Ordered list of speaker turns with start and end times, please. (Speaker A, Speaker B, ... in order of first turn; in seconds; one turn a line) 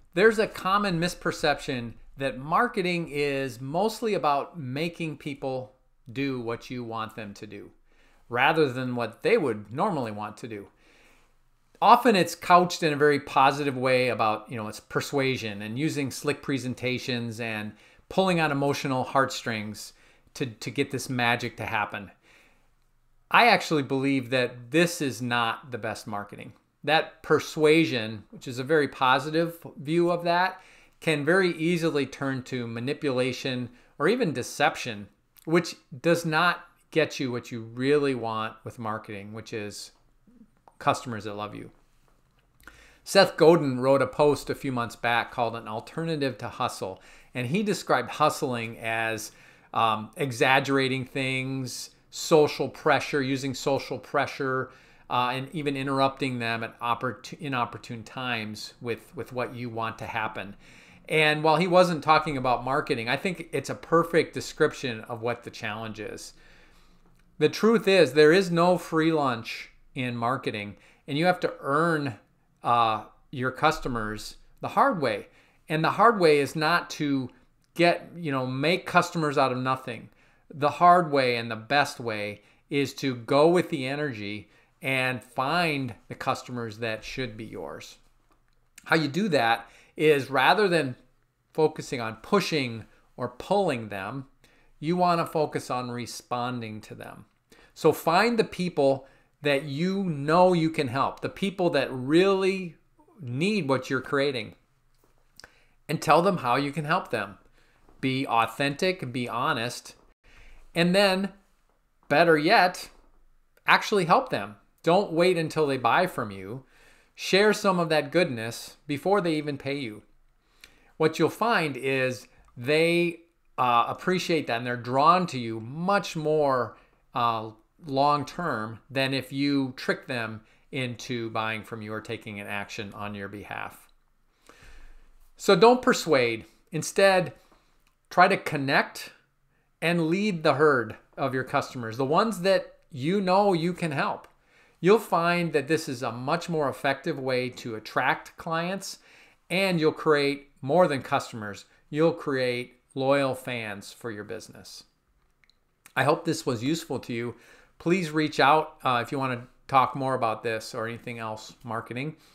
Speaker A: 0.1-7.7
Speaker A: 8.3-10.7
Speaker A: 11.8-22.1
Speaker A: 23.3-39.9
Speaker A: 40.8-41.7
Speaker A: 43.0-60.6
Speaker A: 61.1-66.3
Speaker A: 67.4-88.0
Speaker A: 88.9-91.0
Speaker A: 91.5-94.3
Speaker A: 94.8-104.5
Speaker A: 105.9-107.4
Speaker A: 108.0-110.0
Speaker A: 110.8-111.3
Speaker A: 112.1-112.9
Speaker A: 113.7-116.7
Speaker A: 117.2-120.0
Speaker A: 121.0-133.9
Speaker A: 135.4-137.3
Speaker A: 138.1-139.1
Speaker A: 139.8-144.3
Speaker A: 144.8-154.8
Speaker A: 156.0-162.2